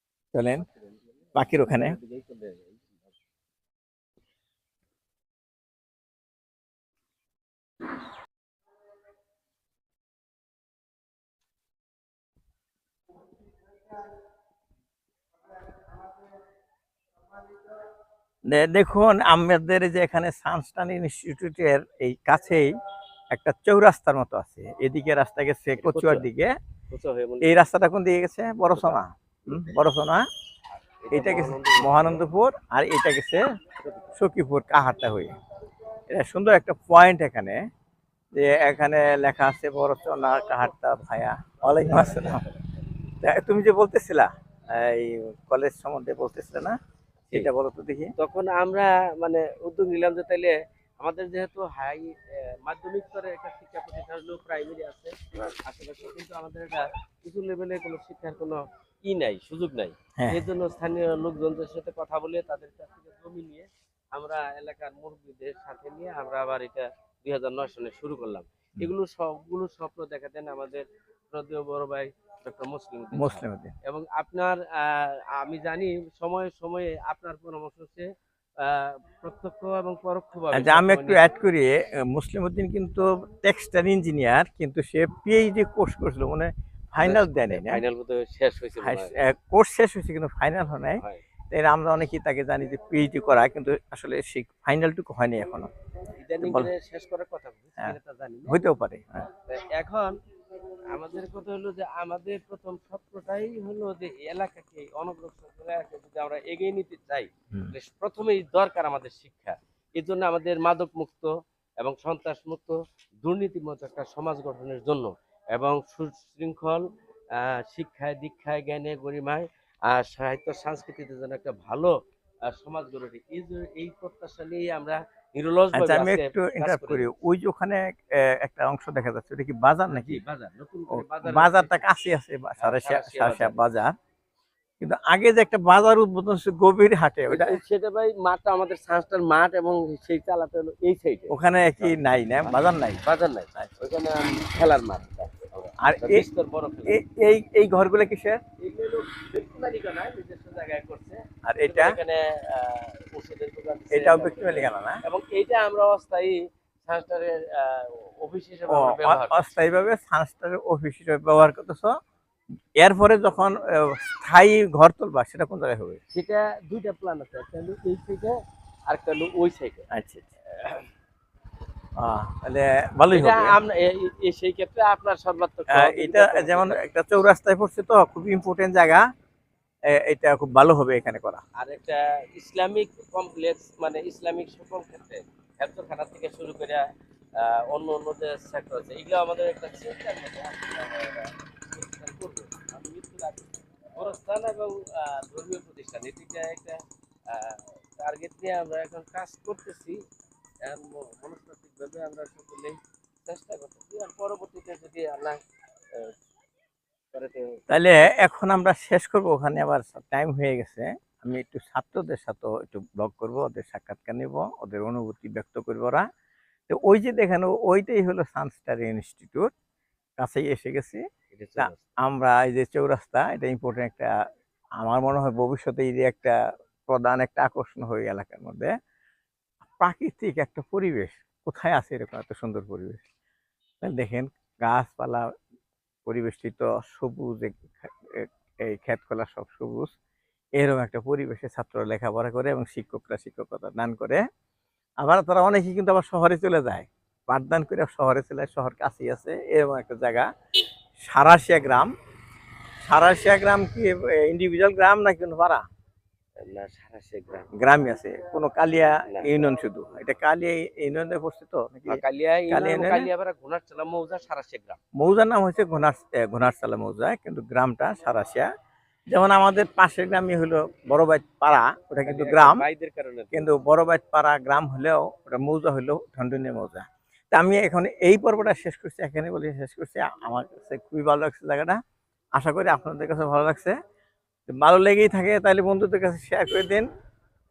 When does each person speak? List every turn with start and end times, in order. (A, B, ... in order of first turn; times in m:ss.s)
0:00.3-0:00.6 A
0:00.6-0:03.1 B
0:01.4-0:02.0 A
0:18.5-0:22.7 A
0:23.3-0:26.5 A
0:25.8-0:26.3 B
0:26.9-0:27.6 B
0:27.4-0:30.2 A
0:28.7-0:29.7 B
0:31.0-0:32.2 B
0:31.1-0:33.4 A
0:33.8-0:34.1 B
0:34.2-0:35.4 A
0:36.1-0:37.6 A
0:38.3-0:42.4 A
0:41.6-0:42.6 B
0:43.2-0:46.8 A
0:47.3-0:48.1 A
0:48.2-1:18.1 B
1:00.2-1:00.5 A
1:13.1-1:13.8 A
1:18.6-1:21.4 B
1:20.5-1:27.8 A
1:27.0-1:29.1 B
1:28.8-1:35.7 A
1:36.1-1:38.6 B
1:36.4-1:36.7 A
1:38.5-1:39.3 A
1:39.5-1:40.1 B
1:40.9-2:01.9 B
2:02.5-2:07.1 B
2:05.7-2:10.2 A
2:09.9-2:11.7 B
2:10.9-2:13.9 A
2:12.6-2:13.6 B
2:14.8-2:17.6 A
2:17.3-2:27.0 B
2:21.3-2:23.0 A
2:25.8-2:26.3 A
2:26.9-2:28.4 A
2:28.6-2:39.9 B
2:31.4-2:32.0 A
2:33.9-2:35.0 A
2:38.7-2:41.9 A
2:42.8-2:46.0 A
2:46.1-2:49.9 B
2:49.9-2:50.3 A
2:50.6-2:50.8 B
2:52.0-2:53.6 A
2:53.1-2:56.8 B
2:55.7-2:59.1 A
2:59.9-3:01.4 A
3:01.6-3:06.9 B
3:07.4-3:13.5 B
3:14.0-3:20.0 B
3:20.6-3:25.4 B
3:27.1-3:27.7 B
3:27.7-3:36.0 A
3:36.7-3:39.5 A
3:40.2-3:41.0 A
3:41.3-3:41.8 B
3:41.6-3:44.1 A
3:44.8-3:46.4 A
3:46.9-3:48.7 A
3:49.6-3:53.1 A
3:53.8-3:55.3 A
3:56.1-3:59.9 A
4:00.6-4:04.2 A
4:05.0-4:10.3 A
4:11.0-4:11.9 A
4:12.9-4:15.6 A
4:16.4-4:17.5 B
4:17.6-4:23.1 A
4:21.9-4:24.8 B
4:25.0-4:28.5 A
4:29.1-4:32.7 A
4:32.0-4:33.6 B
4:33.3-4:41.8 A
4:42.4-4:43.8 A
4:44.5-4:46.9 A